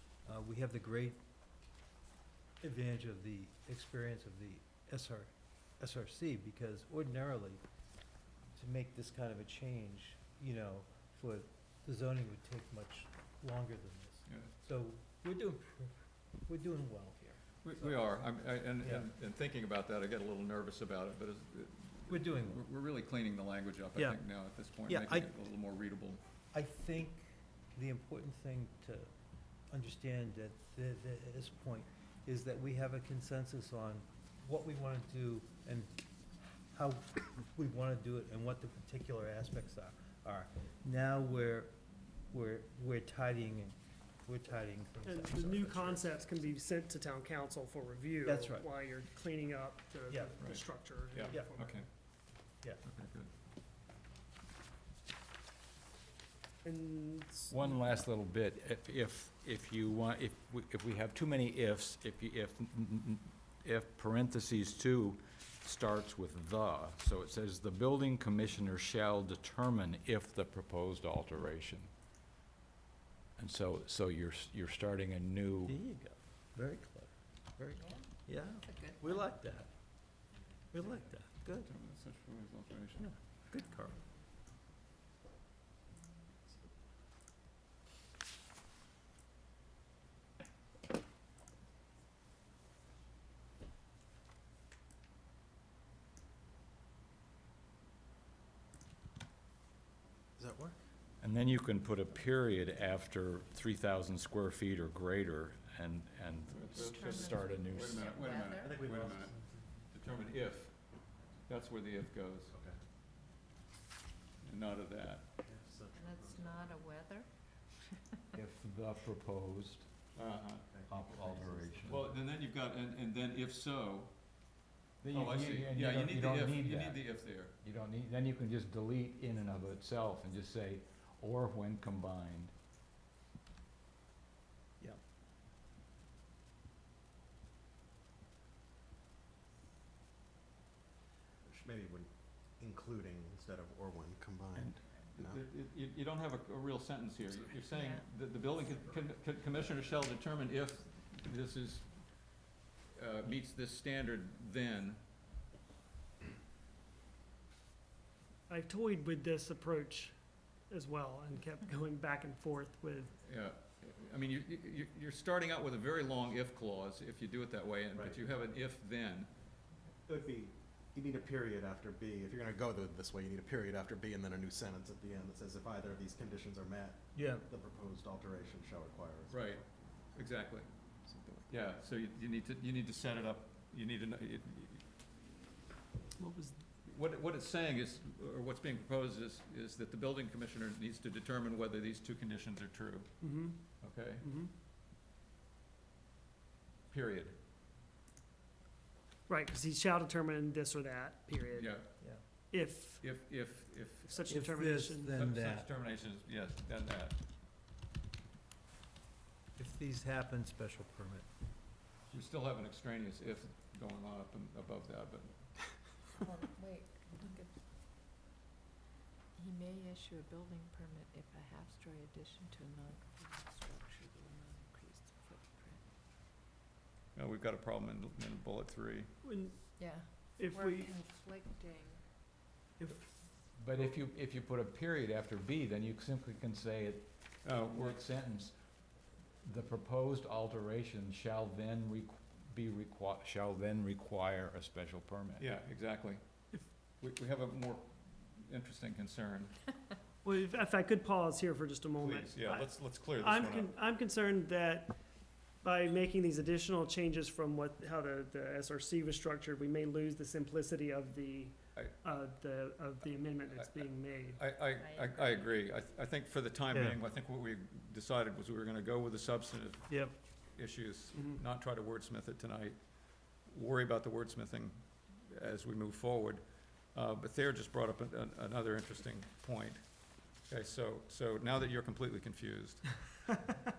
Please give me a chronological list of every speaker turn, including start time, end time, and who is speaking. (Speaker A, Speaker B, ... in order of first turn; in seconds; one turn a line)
Speaker A: 0.2-1.2
Speaker A: 2.6-7.6
Speaker A: 8.5-18.0
Speaker B: 14.2-14.5
Speaker B: 17.6-26.2
Speaker A: 18.8-19.1
Speaker A: 22.1-22.6
Speaker A: 23.9-24.2
Speaker A: 24.9-25.3
Speaker A: 26.5-29.1
Speaker A: 29.7-35.9
Speaker A: 36.7-41.7
Speaker A: 42.3-46.5
Speaker C: 45.0-51.9
Speaker A: 48.2-48.7
Speaker A: 50.1-51.5
Speaker B: 50.4-53.3
Speaker C: 56.6-57.8
Speaker D: 57.5-71.9
Speaker D: 73.4-75.7
Speaker A: 75.7-79.7
Speaker E: 77.8-78.1
Speaker E: 78.6-79.2
Speaker A: 80.7-81.7
Speaker B: 81.6-83.1
Speaker A: 83.0-84.0
Speaker E: 86.0-86.5
Speaker F: 100.3-100.8
Speaker D: 101.2-108.0
Speaker B: 106.5-109.3
Speaker E: 106.5-108.8
Speaker F: 108.5-109.7
Speaker B: 109.9-112.5
Speaker F: 112.5-112.8
Speaker B: 114.4-115.3
Speaker F: 115.4-116.8
Speaker E: 115.9-118.3
Speaker D: 118.3-119.9
Speaker B: 120.1-120.7
Speaker F: 120.7-122.1
Speaker D: 120.9-122.1
Speaker B: 121.9-124.5
Speaker D: 125.0-132.5
Speaker B: 125.1-127.5
Speaker F: 141.4-145.4
Speaker B: 144.6-152.4
Speaker E: 147.4-148.0
Speaker B: 152.9-155.0
Speaker C: 158.5-163.1
Speaker B: 163.2-169.3
Speaker F: 167.9-168.2
Speaker F: 170.1-179.7
Speaker A: 177.1-177.5
Speaker B: 179.3-185.1
Speaker C: 186.2-186.6
Speaker B: 186.8-194.4
Speaker C: 193.2-194.5
Speaker B: 196.9-197.4
Speaker C: 199.3-203.1
Speaker B: 201.5-204.3
Speaker C: 204.1-205.2
Speaker A: 204.3-205.7
Speaker B: 205.1-207.2
Speaker A: 209.6-211.3
Speaker B: 212.1-215.7
Speaker E: 216.2-217.6
Speaker E: 219.3-225.8
Speaker B: 227.1-229.1
Speaker C: 229.2-229.7
Speaker E: 229.7-232.5
Speaker C: 230.3-230.9
Speaker C: 232.8-233.1
Speaker D: 233.5-238.6
Speaker B: 237.4-238.0
Speaker D: 239.4-245.5
Speaker B: 245.4-249.7
Speaker C: 250.2-264.4
Speaker B: 252.0-253.7
Speaker B: 263.5-283.1
Speaker E: 264.6-265.8
Speaker A: 266.7-267.0
Speaker C: 271.1-271.4